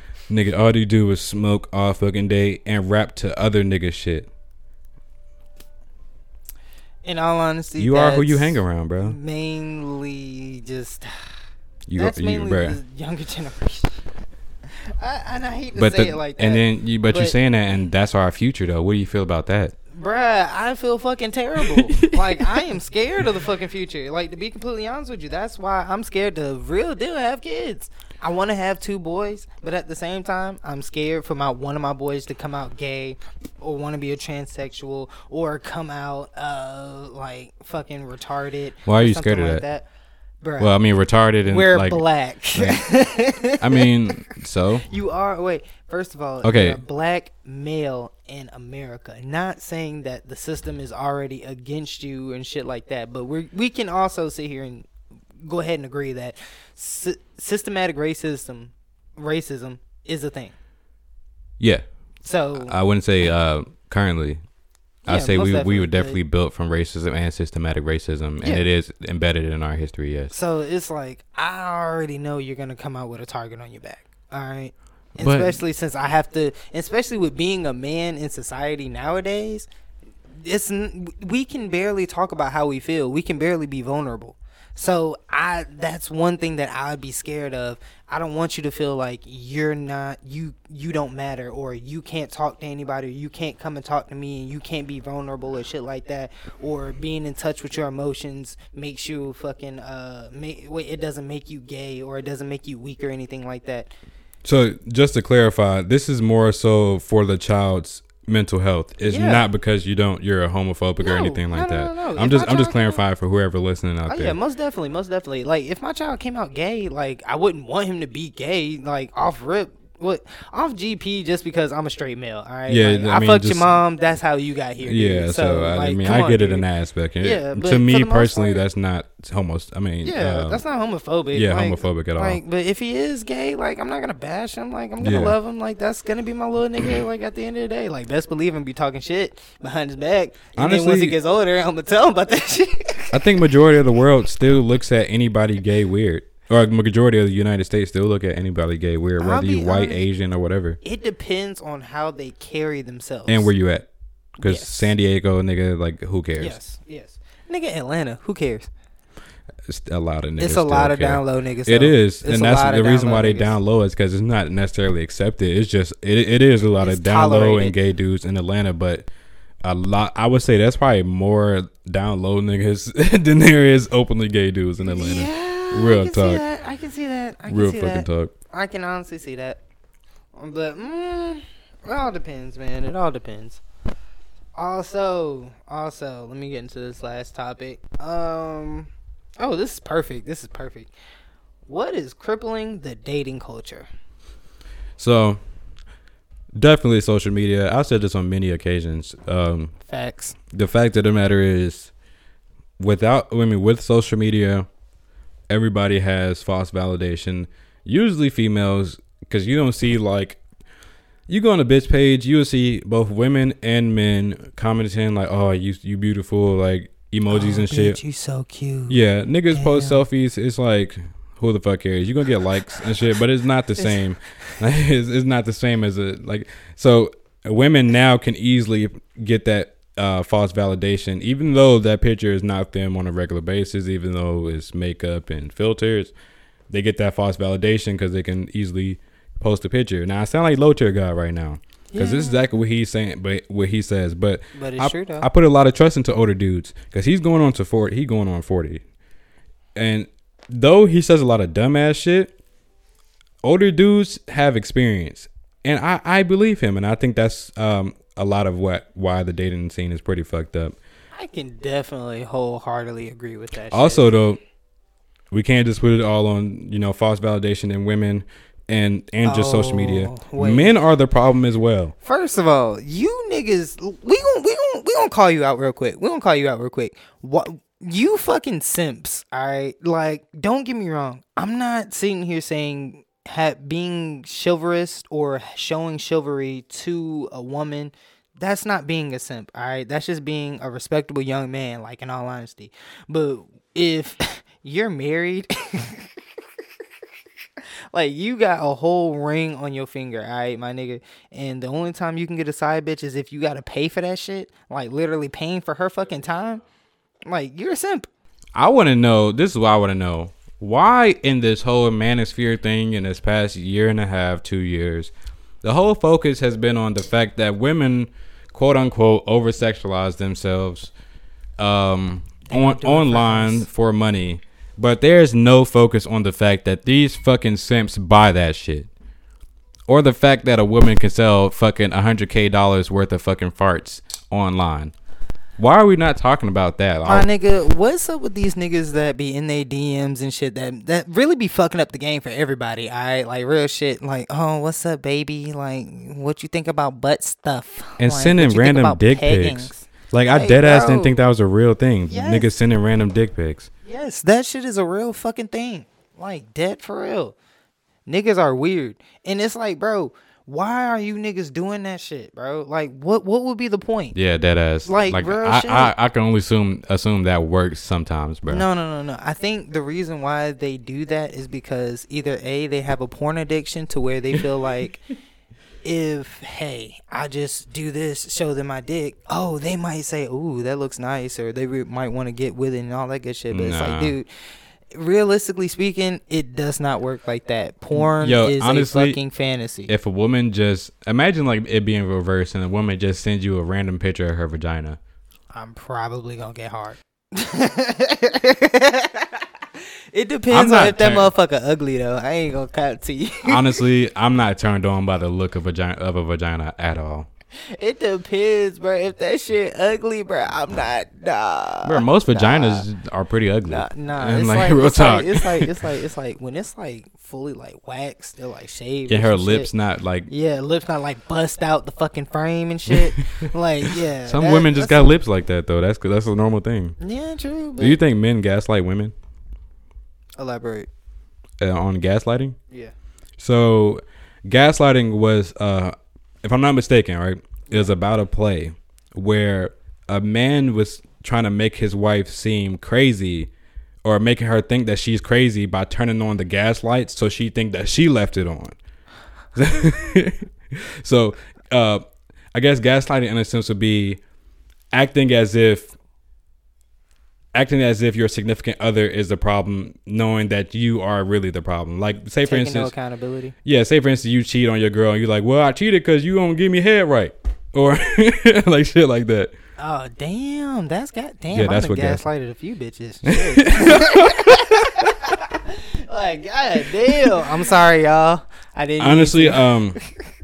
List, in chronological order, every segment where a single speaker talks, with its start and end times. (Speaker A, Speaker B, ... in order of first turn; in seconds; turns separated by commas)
Speaker A: 0.3-4.3, Speaker B: 7.0-11.3, Speaker A: 7.8-9.2, Speaker A: 11.9-12.8, Speaker B: 11.9-13.9, Speaker B: 14.9-17.3, Speaker A: 15.7-19.7, Speaker B: 19.9-39.9, Speaker A: 21.6-22.6, Speaker A: 38.9-39.6, Speaker B: 40.4-40.8, Speaker A: 40.6-42.8, Speaker B: 41.5-43.9, Speaker A: 43.6-44.9, Speaker B: 44.9-54.9, Speaker A: 46.4-46.8, Speaker B: 55.4-60.5, Speaker A: 61.6-61.9, Speaker B: 62.2-62.8, Speaker A: 62.5-64.4, Speaker B: 65.0-66.2, Speaker A: 65.0-70.3, Speaker B: 70.3-79.7, Speaker A: 75.2-75.6, Speaker B: 80.3-103.9, Speaker A: 104.4-114.3, Speaker B: 109.1-109.4, Speaker B: 111.0-113.0, Speaker B: 114.1-126.7, Speaker A: 122.7-123.8, Speaker A: 124.8-130.6, Speaker B: 127.2-128.6, Speaker B: 130.0-143.2, Speaker A: 131.3-132.4, Speaker A: 135.0-135.3, Speaker A: 140.6-141.2, Speaker A: 143.1-150.8, Speaker B: 149.2-150.1, Speaker B: 150.8-153.5, Speaker A: 153.3-153.9, Speaker B: 154.4-154.9, Speaker A: 154.4-156.6, Speaker B: 156.4-158.7, Speaker A: 159.7-169.1, Speaker B: 160.4-163.5, Speaker B: 166.8-167.8, Speaker A: 169.6-176.4, Speaker B: 174.8-179.6, Speaker A: 177.5-178.3, Speaker B: 180.3-183.6, Speaker B: 184.6-190.9, Speaker B: 191.7-193.9, Speaker A: 195.0-195.4, Speaker A: 196.5-199.7, Speaker B: 199.9-200.3, Speaker A: 200.5-201.9, Speaker A: 202.8-204.7, Speaker A: 205.5-210.4, Speaker A: 211.3-218.0, Speaker B: 217.3-219.0, Speaker A: 218.9-236.1, Speaker B: 219.5-220.0, Speaker A: 236.7-248.8, Speaker B: 241.9-242.6, Speaker B: 244.5-245.3, Speaker A: 249.7-252.3, Speaker A: 253.4-260.8, Speaker B: 261.1-264.1, Speaker A: 263.7-264.4, Speaker A: 265.3-271.9, Speaker B: 269.2-270.7, Speaker B: 272.0-296.1, Speaker B: 297.9-306.6, Speaker B: 307.2-308.1, Speaker A: 308.5-315.1, Speaker A: 315.6-320.9, Speaker A: 321.6-328.9, Speaker B: 322.5-323.6, Speaker A: 329.9-334.9, Speaker A: 335.6-337.3, Speaker B: 337.0-351.2, Speaker A: 348.0-353.7, Speaker B: 352.1-352.5, Speaker B: 353.8-357.3, Speaker B: 358.1-364.1, Speaker A: 364.1-368.6, Speaker B: 364.8-365.9, Speaker B: 368.5-375.1, Speaker B: 375.8-384.3, Speaker A: 383.5-384.1, Speaker B: 384.9-389.9, Speaker A: 387.9-389.2, Speaker A: 389.9-395.0, Speaker B: 395.5-399.4, Speaker B: 400.1-403.8, Speaker A: 400.5-401.3, Speaker A: 403.4-407.3, Speaker B: 407.7-412.9, Speaker A: 411.8-415.8, Speaker B: 413.7-419.7, Speaker A: 419.1-420.3, Speaker B: 420.3-425.1, Speaker A: 422.9-427.0, Speaker B: 427.0-428.0, Speaker A: 427.8-429.1, Speaker B: 430.4-430.9, Speaker A: 431.6-432.6, Speaker A: 433.4-443.5, Speaker A: 444.0-448.8, Speaker A: 449.5-452.0, Speaker A: 452.5-454.2, Speaker A: 454.9-455.9, Speaker A: 457.5-462.9, Speaker B: 462.4-463.5, Speaker A: 463.6-469.5, Speaker B: 469.8-480.0, Speaker A: 471.5-472.2, Speaker A: 473.3-475.3, Speaker A: 479.0-480.0